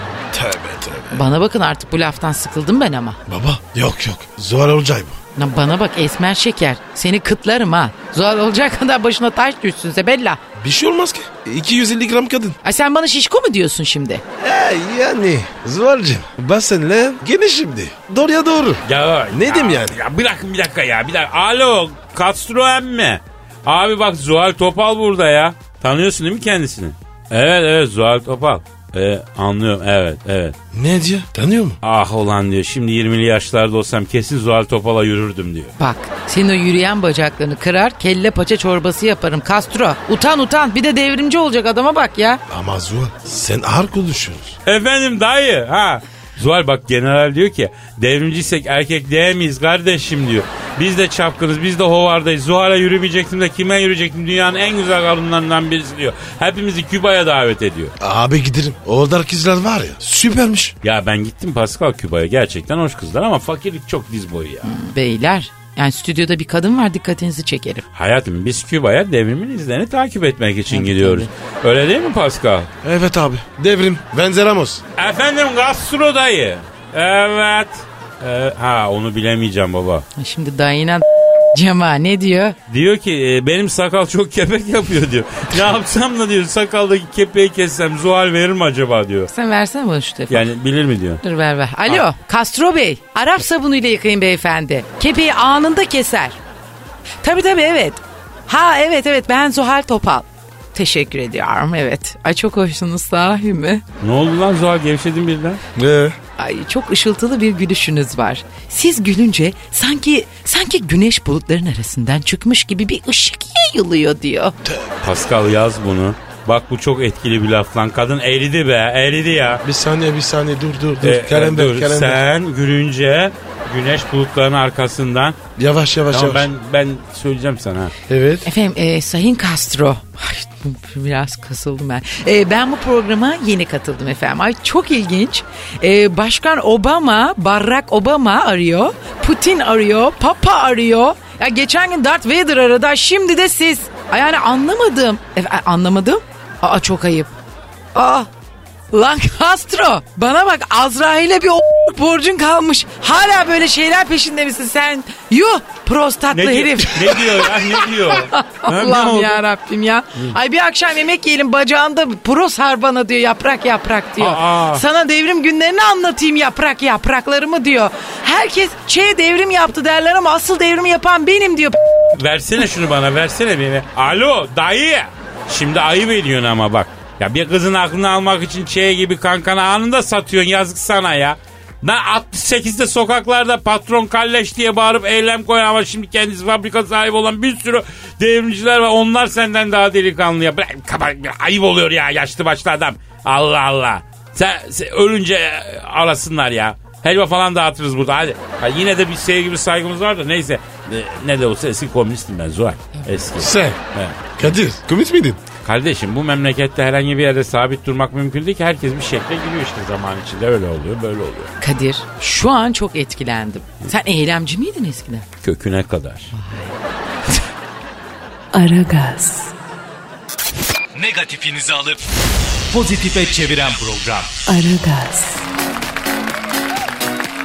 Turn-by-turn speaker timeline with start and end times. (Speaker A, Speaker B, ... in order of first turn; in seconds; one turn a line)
Speaker A: 0.3-1.2
Speaker B: 1.1-3.2
Speaker A: 3.3-5.2
Speaker B: 5.3-10.4
Speaker A: 10.6-12.6
Speaker B: 12.6-14.2
Speaker A: 14.4-20.0
Speaker C: 18.9-30.6
Speaker A: 30.7-31.8
Speaker C: 31.8-35.7
Speaker B: 35.8-42.4
Speaker A: 42.5-44.5
Speaker C: 44.6-57.9
Speaker A: 58.0-60.7
Speaker C: 60.8-64.7
Speaker B: 64.6-67.8
Speaker C: 67.9-72.7
Speaker B: 70.7-71.3
Speaker A: 72.8-74.8
Speaker C: 75.0-80.0
Speaker B: 80.2-82.5
Speaker C: 82.7-89.3
Speaker B: 89.3-90.5
Speaker C: 90.3-91.2
Speaker B: 91.2-96.4
Speaker B: 97.2-103.8
Speaker C: 104.0-105.6
Speaker A: 105.8-106.2
Speaker B: 106.4-114.5
Speaker A: 114.6-115.1
Speaker C: 115.0-119.6
Speaker A: 119.6-122.2
Speaker C: 121.0-125.4
Speaker A: 125.6-126.5
Speaker C: 126.1-127.9
Speaker A: 128.1-128.5
Speaker B: 128.4-147.3
Speaker B: 147.9-148.3
Speaker B: 148.9-171.8
Speaker C: 156.3-159.4
Speaker C: 164.2-164.8
Speaker C: 172.1-204.5
Speaker A: 203.4-203.8
Speaker A: 204.4-205.4
Speaker C: 205.6-211.5
Speaker B: 211.6-215.2
Speaker C: 215.4-216.3
Speaker B: 216.3-216.8
Speaker D: 218.5-219.5
Speaker E: 220.9-222.0
Speaker E: 222.7-224.4
Speaker D: 224.5-225.4